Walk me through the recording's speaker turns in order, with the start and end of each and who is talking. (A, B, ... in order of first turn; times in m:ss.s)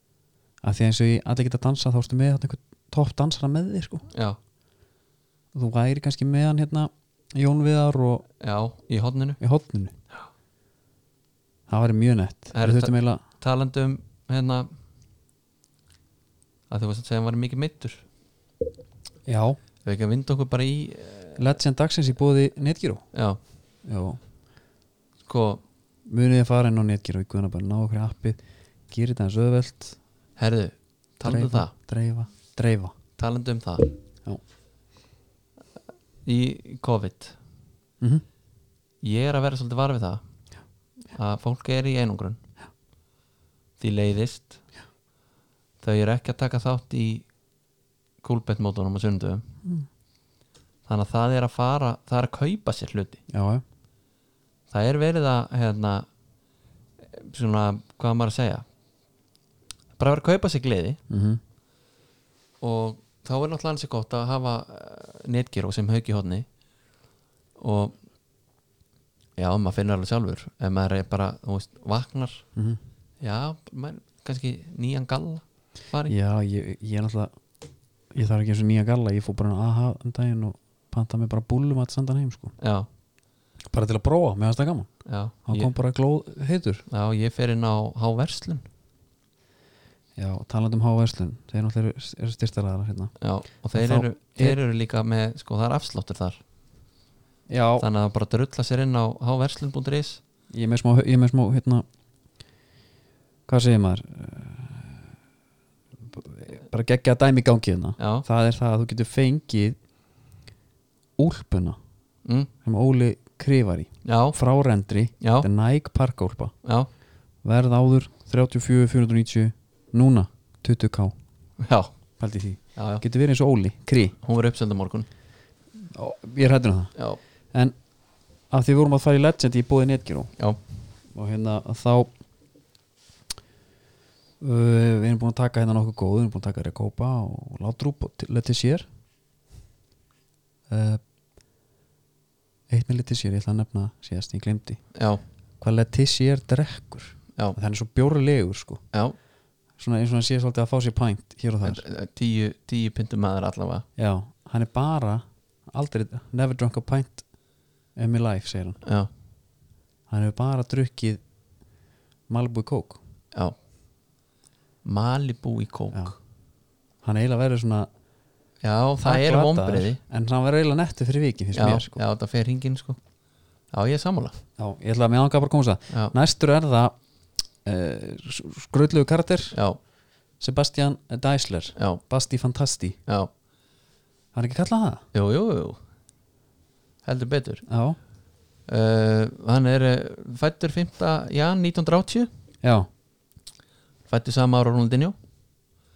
0:00.6-0:04.0 A
0:04.1-0:04.4 B
0:05.5-0:08.2 A
0:08.4-0:09.4 B
0:09.4-0:09.9 A
0:11.7-0:13.2 A
0:12.5-0:14.7 B
0:16.7-0:18.0 B
0:19.2-0:19.6 A
0:19.8-0:21.4 B
0:21.4-0:23.0 A
0:23.8-0:24.2 A
0:25.3-0:25.6 B
0:26.0-0:30.0 A
0:30.4-0:31.7 B
0:31.2-0:32.9 A
0:33.2-0:33.9 B
0:36.2-0:37.4 B
0:39.0-0:40.2 B
0:41.1-0:42.4 B
0:43.8-0:44.6 B
0:45.8-0:47.2 B
0:48.2-0:49.4 B
0:50.9-0:53.2 B
0:53.3-0:53.6 A
0:54.7-0:56.1 B
0:57.1-0:58.6 B
1:00.0-1:01.0 B
1:01.1-1:01.4 A
1:02.6-1:06.4 B
1:07.6-1:07.9 B
1:09.4-1:12.4 B
1:13.2-1:16.1 B
1:16.1-1:17.3 A
1:18.1-1:22.5 A
1:22.6-1:22.9 B
1:23.7-1:24.9 A
1:25.0-1:25.7 B
1:25.4-1:26.8 A
1:26.9-1:28.6 B
1:30.2-1:33.1 A
1:33.2-1:36.4 B
1:33.7-1:34.6 A
1:37.5-1:37.9 A
1:37.8-1:40.2 B
1:40.5-1:41.8 A
1:43.5-1:45.0 A
1:46.1-1:49.8 A
1:48.0-1:48.2 B
1:51.2-1:51.8 A
1:52.2-1:52.5 B
1:52.6-1:56.5 A
1:54.0-1:54.4 B
1:55.2-1:55.5 B
1:57.4-2:01.1 A
2:01.6-2:01.9 B
2:02.2-2:04.2 A
2:02.8-2:03.0 B
2:04.2-2:05.1 B
2:05.8-2:06.9 A
2:08.5-2:10.3 A
2:11.1-2:12.1 A
2:14.4-2:18.9 A
2:20.7-2:21.0 A
2:22.7-2:24.8 A
2:24.9-2:25.2 B
2:25.6-2:28.8 A
2:29.8-2:31.8 A
2:31.6-2:33.8 B
2:34.0-2:37.2 A
2:38.0-2:38.8 A
2:40.1-2:41.2 A
2:42.3-2:43.0 A
2:44.8-2:46.1 B
2:47.0-2:47.9 A
2:48.6-2:50.0 B
2:49.0-2:52.0 A
2:51.5-2:53.0 B
2:53.7-2:54.3 B
2:54.6-2:56.9 A
2:57.6-2:59.6 A
2:59.5-2:59.8 B
3:00.4-3:03.0 A
3:01.8-3:02.0 B
3:04.3-3:05.0 A
3:05.1-3:05.8 B
3:07.0-3:07.6 B
3:07.7-3:08.0 A
3:08.7-3:12.3 B
3:12.6-3:12.9 A
3:14.1-3:15.1 B